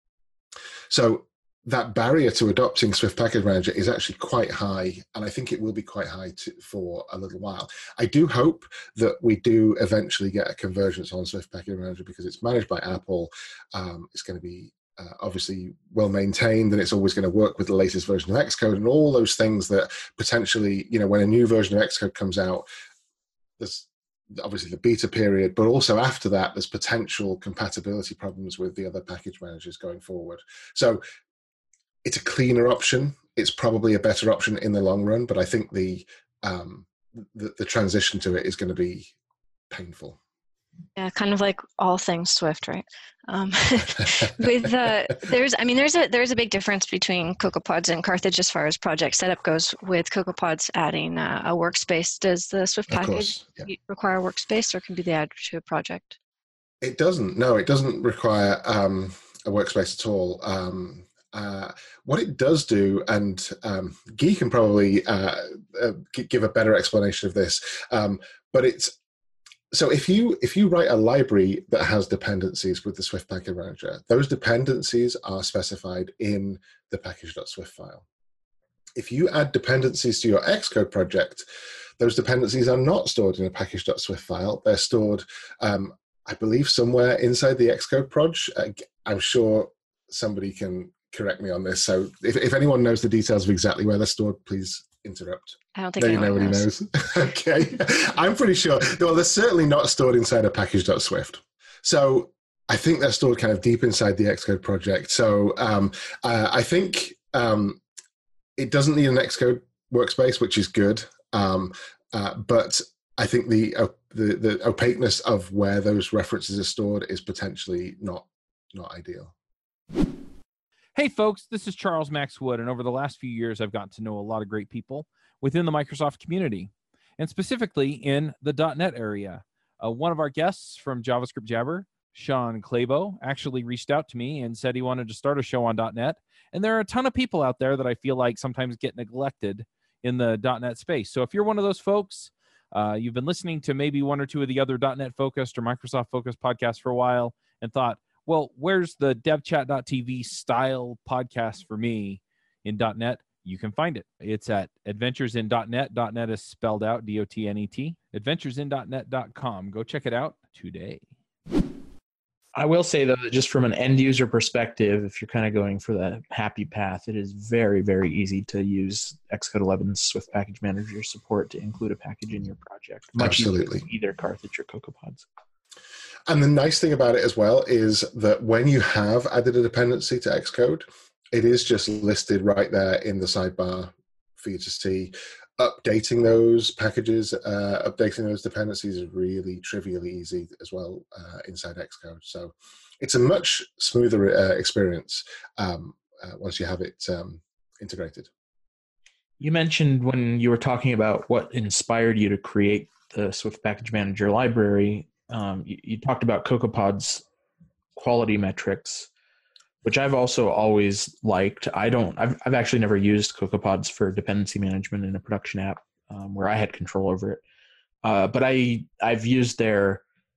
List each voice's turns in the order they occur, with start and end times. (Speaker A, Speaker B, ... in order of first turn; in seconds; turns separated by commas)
Speaker A: 0.9-22.7, Speaker A: 23.6-31.0, Speaker A: 32.0-39.1, Speaker A: 39.7-40.2, Speaker B: 41.0-56.2, Speaker A: 52.9-53.7, Speaker A: 56.8-69.0, Speaker A: 69.7-78.0, Speaker A: 79.0-81.5, Speaker A: 82.0-107.8, Speaker B: 95.8-96.7, Speaker A: 108.6-119.3, Speaker C: 121.0-161.1, Speaker D: 162.5-175.2, Speaker A: 173.2-173.8, Speaker A: 176.3-198.3, Speaker D: 199.4-207.2, Speaker D: 208.0-209.1, Speaker D: 209.8-217.4, Speaker D: 218.0-220.0